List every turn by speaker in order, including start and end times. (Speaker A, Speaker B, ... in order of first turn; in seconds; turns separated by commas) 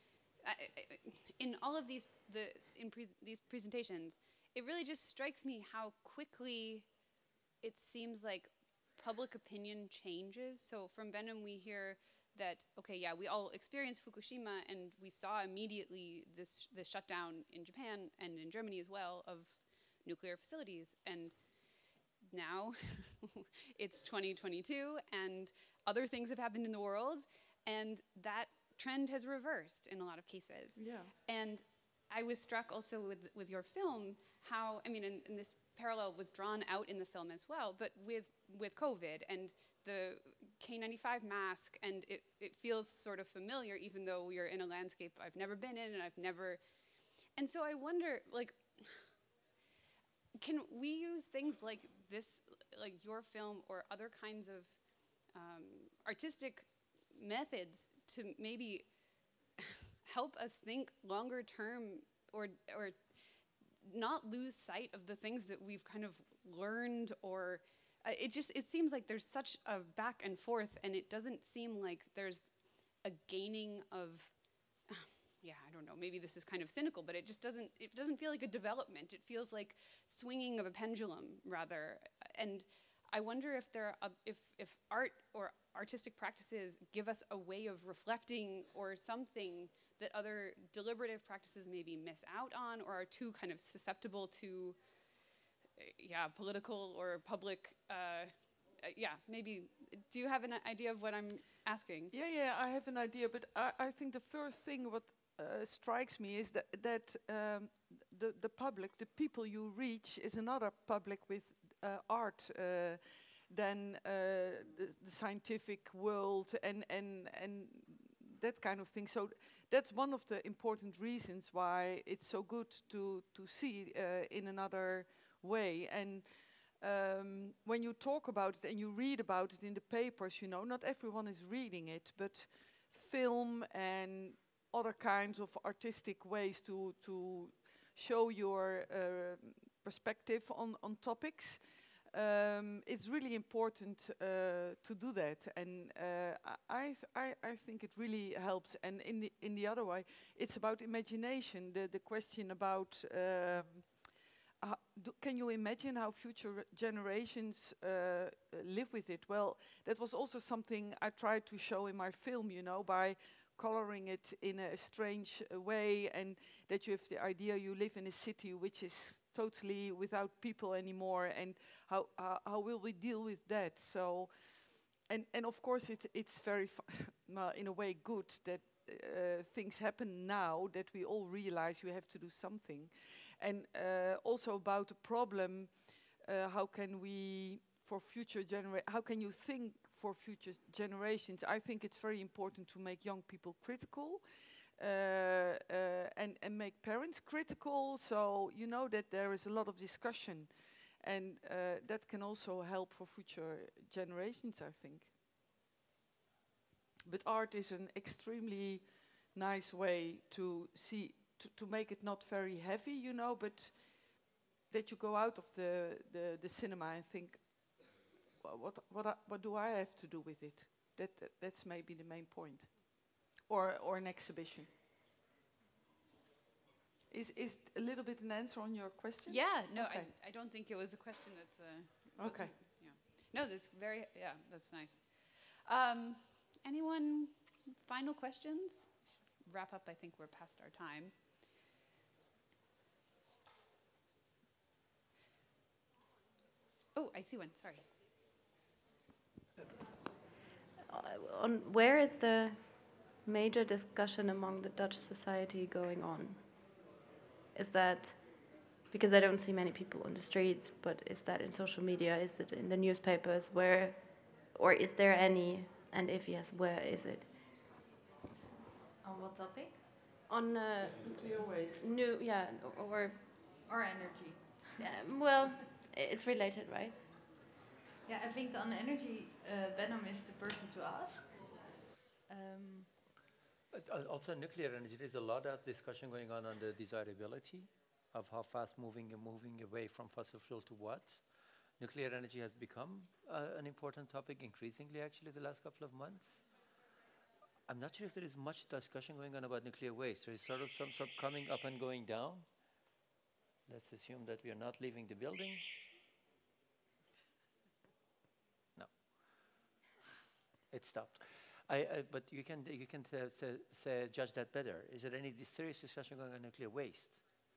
Speaker A: 0.4-6.9, Speaker A: 7.6-21.7, Speaker A: 22.2-46.6, Speaker B: 30.8-31.1, Speaker A: 47.4-49.1, Speaker A: 50.4-54.8, Speaker A: 55.3-58.9, Speaker A: 59.6-63.1, Speaker A: 63.8-74.4, Speaker A: 74.9-94.8, Speaker A: 95.8-102.1, Speaker B: 102.1-205.1, Speaker B: 207.1-224.8, Speaker B: 227.1-230.1, Speaker A: 229.3-241.2, Speaker B: 232.2-232.6, Speaker A: 246.9-247.9, Speaker C: 250.9-256.8, Speaker C: 257.5-267.3, Speaker D: 269.0-269.8, Speaker C: 270.3-273.2, Speaker B: 271.0-271.8, Speaker D: 273.7-274.8, Speaker C: 274.8-277.1, Speaker D: 278.1-281.7, Speaker D: 282.3-282.9, Speaker E: 283.7-291.2, Speaker E: 291.8-296.5, Speaker E: 297.7-302.5, Speaker E: 303.7-305.6, Speaker E: 308.8-309.1, Speaker E: 310.7-317.2